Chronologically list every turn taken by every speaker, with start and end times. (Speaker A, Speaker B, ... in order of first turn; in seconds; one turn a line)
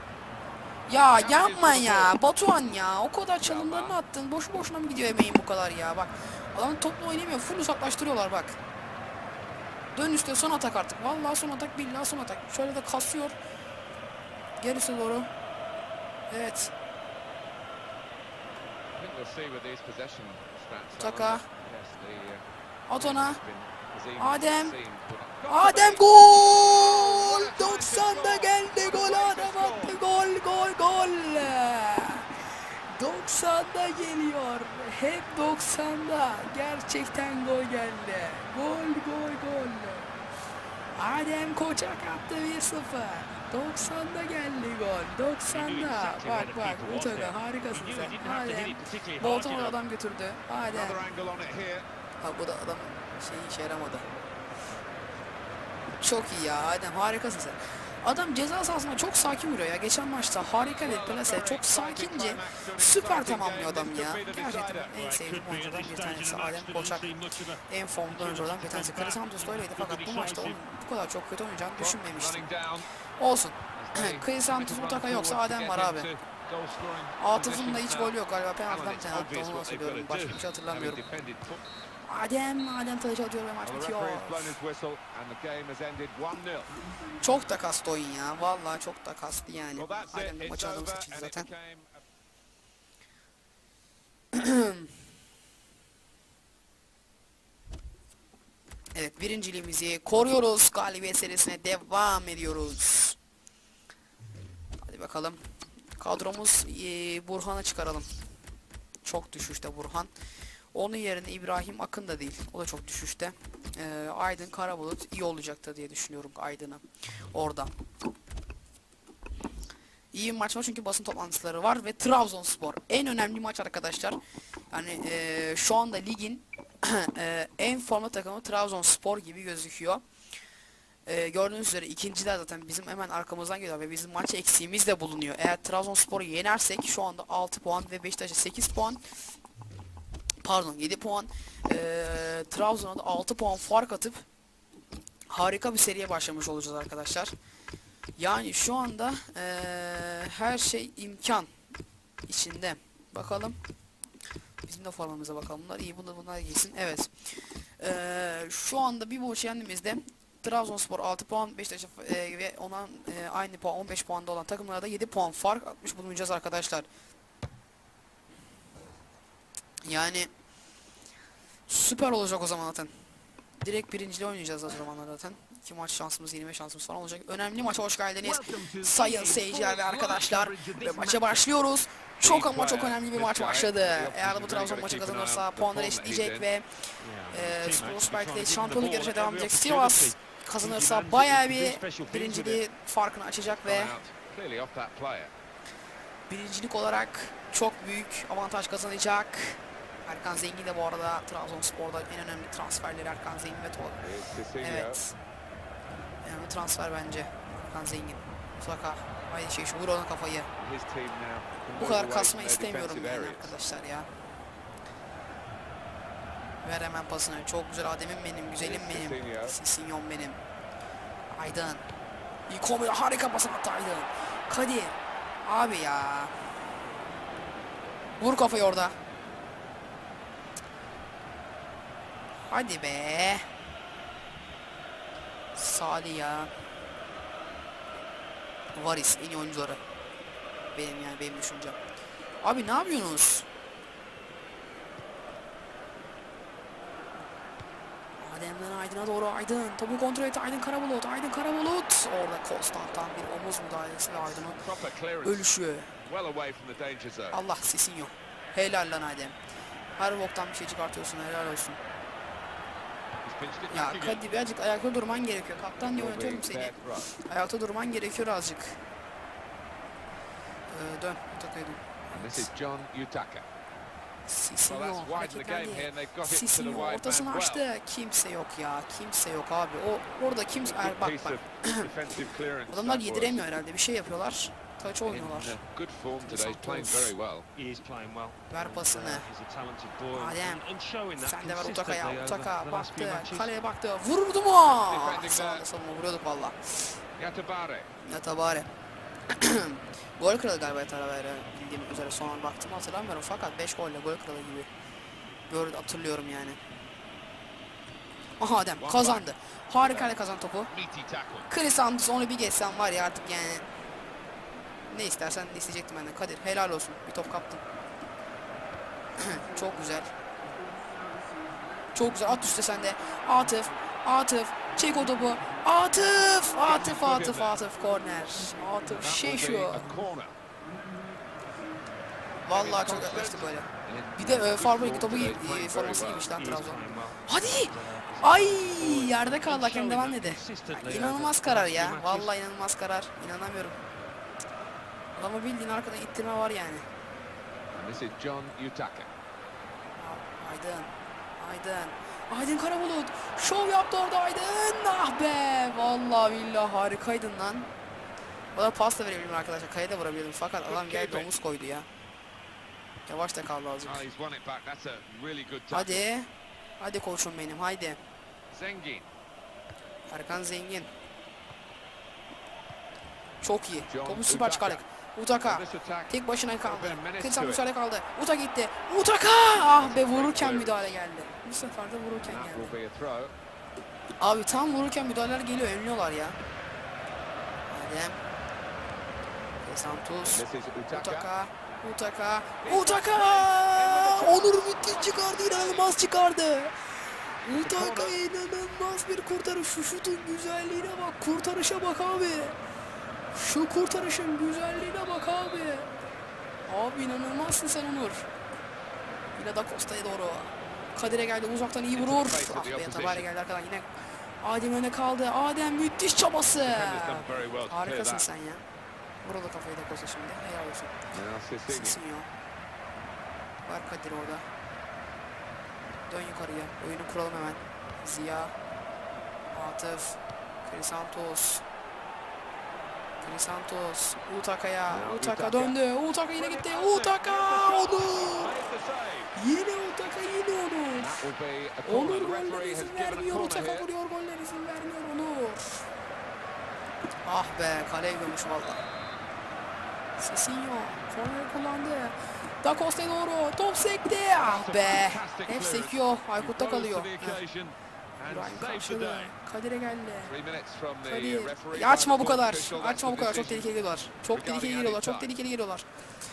Speaker A: 0.9-8.6
Speaker B: 1.1-2.1
Speaker B: 3.4-4.0
Speaker A: 9.9-13.4
Speaker A: 14.6-15.3
Speaker A: 16.3-16.7
Speaker B: 18.9-22.4
Speaker A: 21.0-21.4
Speaker A: 22.9-23.4
Speaker B: 22.9-30.0
Speaker A: 24.2-24.8
Speaker A: 25.5-32.3
Speaker A: 32.9-40.1
Speaker A: 40.9-51.0
Speaker C: 45.5-49.8
Speaker B: 50.7-51.8
Speaker A: 52.2-54.1
Speaker A: 56.0-67.1
Speaker B: 60.7-65.2
Speaker C: 65.2-70.6
Speaker A: 67.7-72.5
Speaker B: 71.8-72.8
Speaker A: 73.2-76.1
Speaker B: 73.7-81.6
Speaker A: 77.2-81.0
Speaker A: 82.0-84.5
Speaker B: 83.6-86.7
Speaker A: 87.2-91.5
Speaker B: 89.7-92.0
Speaker A: 94.3-94.9
Speaker A: 98.9-103.2
Speaker A: 104.8-105.4
Speaker A: 106.0-108.0
Speaker A: 109.0-110.1
Speaker A: 110.7-117.7
Speaker A: 120.1-124.2
Speaker A: 124.7-130.0
Speaker A: 131.1-139.0
Speaker A: 140.4-144.2
Speaker A: 145.3-147.3
Speaker A: 148.2-151.5
Speaker A: 152.3-153.6
Speaker A: 154.6-166.9
Speaker A: 169.8-170.3
Speaker A: 171.7-172.9
Speaker A: 173.6-193.9
Speaker B: 178.2-181.6
Speaker B: 182.2-186.5
Speaker C: 187.0-192.6
Speaker B: 193.5-195.3
Speaker A: 196.3-204.1
Speaker B: 204.0-205.0
Speaker A: 204.6-205.2
Speaker A: 206.2-210.5
Speaker B: 210.6-213.6
Speaker A: 211.7-214.1
Speaker A: 216.6-220.4
Speaker B: 218.6-219.6
Speaker A: 221.3-221.8
Speaker A: 222.5-226.3
Speaker A: 228.2-228.9
Speaker A: 232.5-233.5
Speaker A: 235.5-236.5
Speaker A: 238.7-239.8
Speaker A: 240.7-241.8
Speaker A: 242.4-243.5
Speaker A: 248.2-254.6
Speaker B: 254.3-255.5
Speaker A: 255.2-255.9
Speaker B: 256.0-257.4
Speaker A: 257.3-259.4
Speaker A: 259.9-261.8
Speaker B: 263.2-264.3
Speaker A: 263.7-268.8
Speaker B: 265.9-267.1
Speaker A: 270.7-272.5
Speaker B: 272.1-273.4
Speaker A: 274.2-281.9
Speaker B: 274.6-277.7
Speaker B: 280.7-283.4
Speaker A: 282.7-285.6
Speaker B: 285.0-287.5
Speaker A: 286.2-287.1
Speaker C: 287.5-293.6
Speaker A: 288.5-289.3
Speaker A: 290.1-290.6
Speaker A: 291.2-297.0
Speaker B: 294.6-295.7
Speaker B: 297.2-297.9
Speaker A: 298.0-298.7
Speaker A: 299.3-304.7
Speaker A: 305.5-306.6
Speaker A: 308.4-310.7
Speaker B: 308.8-311.5
Speaker A: 311.5-313.6
Speaker A: 314.8-317.6
Speaker A: 319.2-320.1
Speaker A: 321.9-329.9
Speaker B: 326.6-327.6
Speaker B: 329.0-330.4
Speaker A: 332.4-343.8
Speaker B: 332.5-336.3
Speaker C: 336.3-342.3
Speaker A: 345.1-346.8
Speaker B: 347.7-349.1
Speaker A: 350.0-357.7
Speaker A: 358.5-361.9
Speaker B: 360.6-361.3
Speaker A: 363.1-364.0
Speaker B: 363.8-366.0
Speaker A: 365.7-366.3
Speaker A: 366.8-368.0
Speaker B: 368.5-369.1
Speaker A: 370.1-370.9
Speaker A: 373.4-382.8
Speaker B: 373.9-374.8
Speaker B: 375.4-377.7
Speaker B: 379.7-380.9
Speaker B: 382.2-383.3
Speaker A: 384.2-386.4
Speaker A: 387.7-388.2
Speaker A: 389.6-396.7
Speaker B: 390.2-391.3
Speaker B: 392.6-396.1
Speaker A: 397.4-402.6
Speaker B: 397.4-398.2
Speaker A: 403.3-405.9
Speaker A: 406.7-408.3
Speaker A: 409.4-418.6
Speaker B: 411.9-413.3
Speaker B: 416.6-418.3
Speaker A: 419.2-421.0
Speaker B: 421.1-422.0
Speaker A: 421.7-422.3
Speaker A: 423.6-424.5
Speaker A: 426.1-428.5
Speaker A: 429.5-431.6
Speaker A: 433.2-438.5
Speaker B: 434.9-435.8
Speaker B: 436.3-439.3
Speaker A: 439.3-441.2
Speaker B: 440.9-443.9
Speaker A: 441.8-445.8
Speaker A: 447.2-448.8
Speaker A: 450.2-457.4
Speaker B: 454.3-459.4
Speaker A: 458.3-460.3
Speaker B: 460.2-463.7
Speaker A: 461.0-465.9
Speaker B: 464.3-465.3